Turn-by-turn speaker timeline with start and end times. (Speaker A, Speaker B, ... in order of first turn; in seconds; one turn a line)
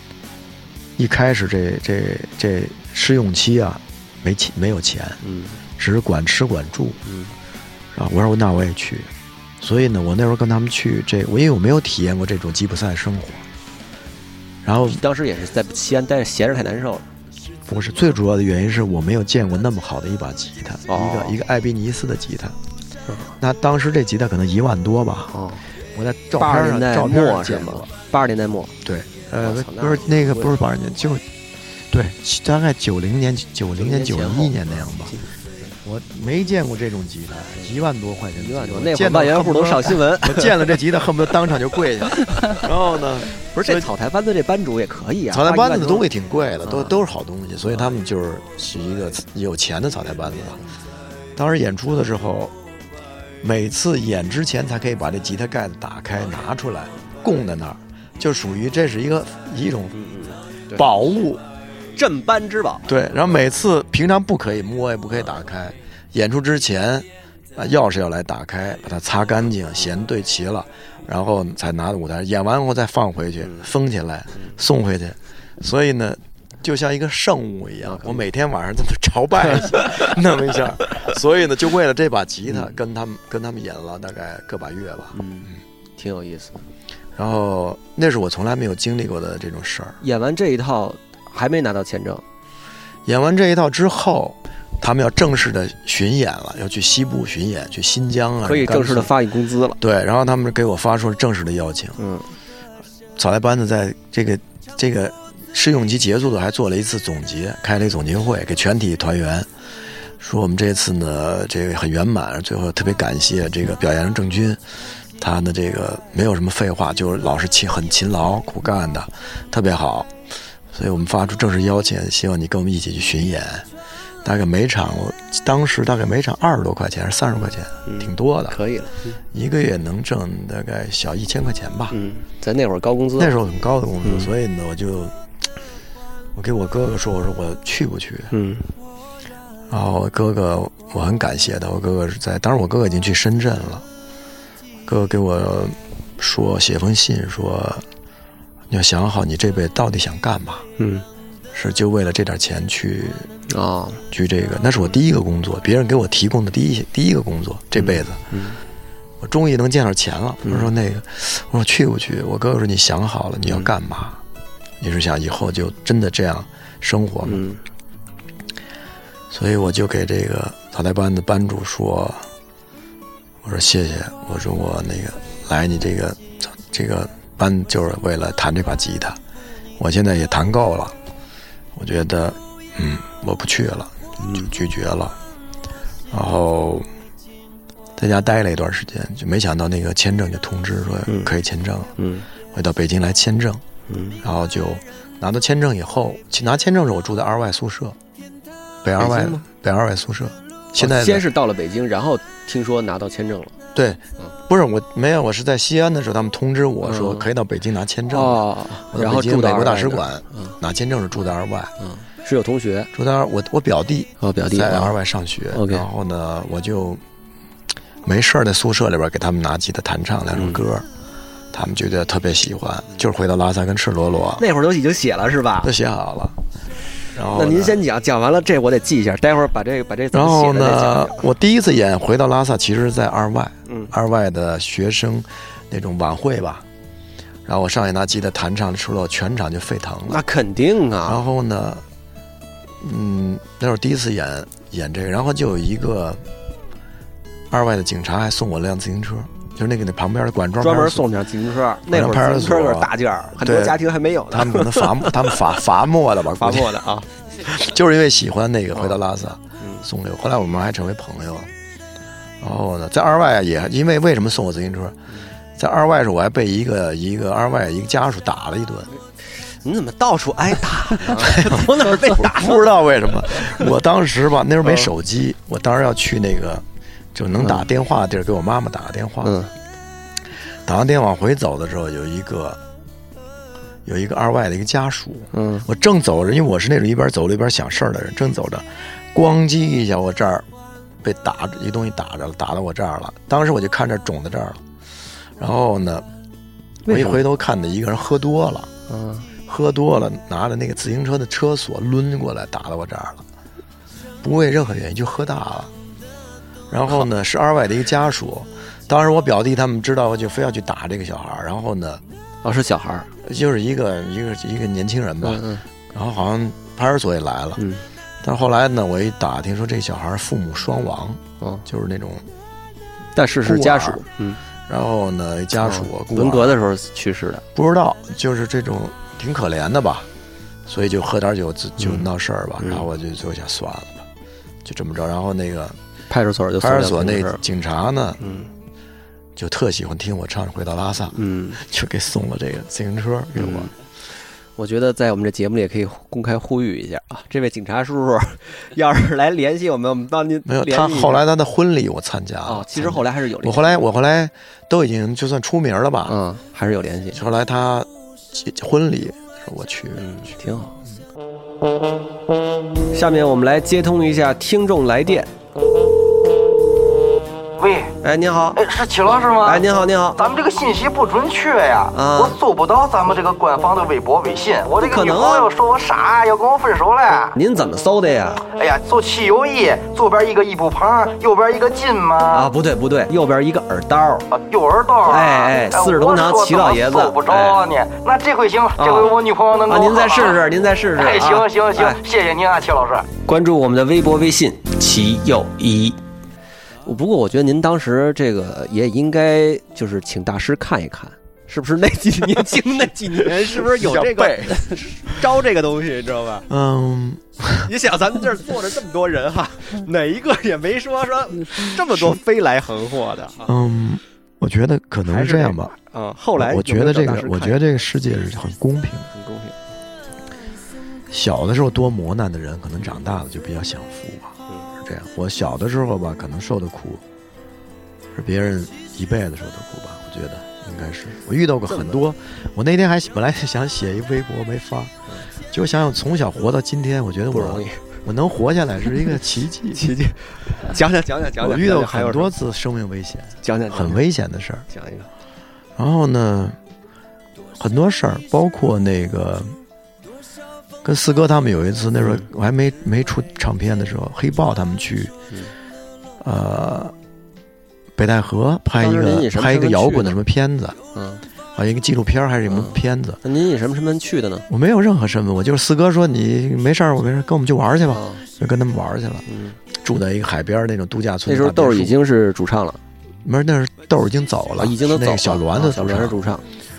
Speaker A: 1.0-5.2
Speaker B: 5.2-5.6
Speaker A: 5.8-7.0
Speaker B: 7.1-7.3
Speaker A: 7.9-13.4
Speaker A: 14.7-15.0
Speaker B: 14.8-17.1
Speaker A: 17.7-22.6
Speaker B: 20.9-21.4
Speaker B: 23.1-23.4
Speaker A: 23.4-25.4
Speaker B: 25.3-25.6
Speaker A: 25.9-27.9
Speaker B: 26.4-28.8
Speaker A: 28.8-31.2
Speaker B: 29.4-30.6
Speaker A: 31.9-35.2
Speaker B: 33.8-35.7
Speaker A: 35.8-43.9
Speaker B: 38.4-40.8
Speaker B: 43.5-46.1
Speaker A: 45.3-50.6
Speaker B: 46.6-47.0
Speaker B: 47.6-48.0
Speaker A: 51.4-52.5
Speaker A: 53.4-60.0
Speaker B: 59.9-60.9
Speaker A: 60.7-61.4
Speaker B: 62.0-62.9
Speaker A: 62.9-85.5
Speaker B: 77.8-78.2
Speaker B: 79.5-79.9
Speaker B: 82.5-82.8
Speaker B: 85.1-86.6
Speaker A: 87.2-90.0
Speaker B: 90.0-92.2
Speaker A: 93.0-99.2
Speaker B: 98.4-99.8
Speaker A: 99.8-102.0
Speaker B: 102.0-102.3
Speaker A: 103.2-109.5
Speaker A: 110.2-114.6
Speaker A: 115.2-120.1
Speaker A: 120.7-123.7
Speaker A: 124.2-128.6
Speaker B: 127.9-129.0
Speaker A: 129.3-132.0
Speaker B: 131.9-133.3
Speaker A: 133.2-135.1
Speaker B: 134.0-134.3
Speaker A: 136.3-138.3
Speaker B: 138.3-138.7
Speaker A: 139.7-143.8
Speaker A: 144.9-147.8
Speaker A: 148.7-150.7
Speaker B: 150.8-151.1
Speaker A: 151.5-153.3
Speaker B: 153.5-154.0
Speaker A: 154.1-158.2
Speaker B: 157.8-158.6
Speaker A: 159.2-164.2
Speaker B: 160.4-160.7
Speaker B: 163.5-163.7
Speaker A: 164.8-167.4
Speaker B: 167.2-167.6
Speaker A: 169.3-172.3
Speaker A: 173.4-179.2
Speaker A: 179.8-181.0
Speaker A: 181.8-185.2
Speaker B: 184.2-184.5
Speaker A: 186.1-186.9
Speaker A: 188.0-191.9
Speaker B: 191.1-191.3
Speaker B: 192.0-192.3
Speaker A: 192.5-193.6
Speaker B: 193.9-194.2
Speaker A: 194.2-198.0
Speaker A: 198.8-201.3
Speaker B: 199.0-199.4
Speaker B: 200.8-203.5
Speaker A: 203.8-211.7
Speaker B: 206.8-207.3
Speaker B: 208.1-210.6
Speaker B: 211.8-212.9
Speaker A: 212.9-217.0
Speaker B: 214.2-215.0
Speaker B: 215.5-215.9
Speaker A: 218.0-220.9
Speaker B: 220.3-220.7
Speaker A: 221.5-224.5
Speaker B: 224.4-225.7
Speaker A: 225.6-226.4
Speaker A: 227.1-227.8
Speaker B: 227.3-231.3
Speaker A: 230.1-236.7
Speaker B: 233.7-233.9
Speaker A: 237.5-240.2
Speaker B: 240.1-241.2
Speaker A: 241.1-241.8
Speaker A: 242.8-246.2
Speaker A: 247.5-251.1
Speaker B: 250.6-255.4
Speaker A: 251.9-256.8
Speaker B: 256.4-257.1
Speaker A: 257.4-261.5
Speaker B: 259.6-259.9
Speaker A: 262.4-265.0
Speaker A: 265.6-268.9
Speaker B: 269.5-273.6
Speaker A: 271.1-279.4
Speaker B: 274.6-274.9
Speaker B: 277.4-277.7
Speaker B: 279.2-279.5
Speaker A: 280.7-282.6
Speaker A: 283.9-290.5
Speaker B: 285.3-285.7
Speaker A: 291.0-294.6
Speaker A: 295.4-296.1
Speaker B: 296.9-297.2
Speaker A: 296.9-298.7
Speaker B: 298.9-299.3
Speaker A: 299.5-303.2
Speaker A: 304.2-305.7
Speaker A: 306.7-312.0
Speaker B: 312.4-313.1
Speaker A: 313.2-317.6
Speaker B: 315.2-315.6
Speaker B: 317.6-317.9
Speaker A: 318.2-322.3
Speaker B: 323.2-324.4
Speaker A: 323.4-324.0
Speaker A: 324.7-326.6
Speaker B: 325.6-327.4
Speaker A: 327.6-330.1
Speaker A: 330.7-334.1
Speaker B: 331.8-332.1
Speaker B: 332.6-332.9
Speaker A: 334.6-335.8
Speaker B: 336.1-337.4
Speaker A: 336.6-338.2
Speaker B: 338.2-338.5
Speaker A: 339.4-343.7
Speaker B: 341.1-341.6
Speaker B: 343.4-343.7
Speaker B: 344.6-351.2
Speaker A: 350.5-356.2
Speaker B: 352.4-353.9
Speaker B: 356.1-357.2
Speaker A: 357.1-360.1
Speaker B: 360.0-360.8
Speaker B: 362.9-365.3
Speaker C: 367.6-367.9
Speaker B: 368.0-368.6
Speaker C: 368.6-377.4
Speaker B: 369.4-370.2
Speaker B: 371.9-372.4
Speaker B: 374.8-375.5
Speaker B: 377.4-378.4
Speaker C: 378.5-382.5
Speaker B: 382.3-384.3
Speaker C: 384.3-390.4
Speaker B: 385.1-387.6
Speaker B: 388.8-389.1
Speaker B: 389.7-392.0
Speaker C: 390.9-393.1
Speaker B: 393.3-396.0
Speaker B: 396.9-406.5
Speaker A: 403.4-405.1
Speaker A: 406.5-407.7
Speaker B: 407.6-413.5
Speaker A: 411.9-412.2
Speaker A: 413.4-415.7
Speaker B: 415.1-417.6
Speaker A: 416.4-419.1
Speaker B: 419.1-419.6
Speaker A: 421.1-427.0
Speaker A: 428.1-434.9
Speaker B: 431.7-432.0
Speaker A: 435.5-439.9
Speaker B: 437.3-437.8
Speaker B: 439.8-442.3
Speaker A: 441.4-444.7
Speaker B: 443.4-444.0
Speaker B: 444.7-445.1
Speaker A: 445.8-446.6
Speaker A: 447.6-449.6
Speaker A: 450.8-455.1
Speaker B: 452.0-452.3
Speaker A: 456.2-456.9
Speaker A: 457.9-460.8
Speaker B: 458.8-460.2
Speaker B: 460.9-461.2
Speaker A: 461.6-463.2
Speaker B: 462.5-464.5
Speaker A: 464.5-469.2
Speaker B: 467.9-468.2
Speaker B: 469.3-469.6
Speaker A: 469.8-471.9
Speaker B: 471.3-472.8
Speaker A: 473.2-476.2
Speaker B: 474.6-476.4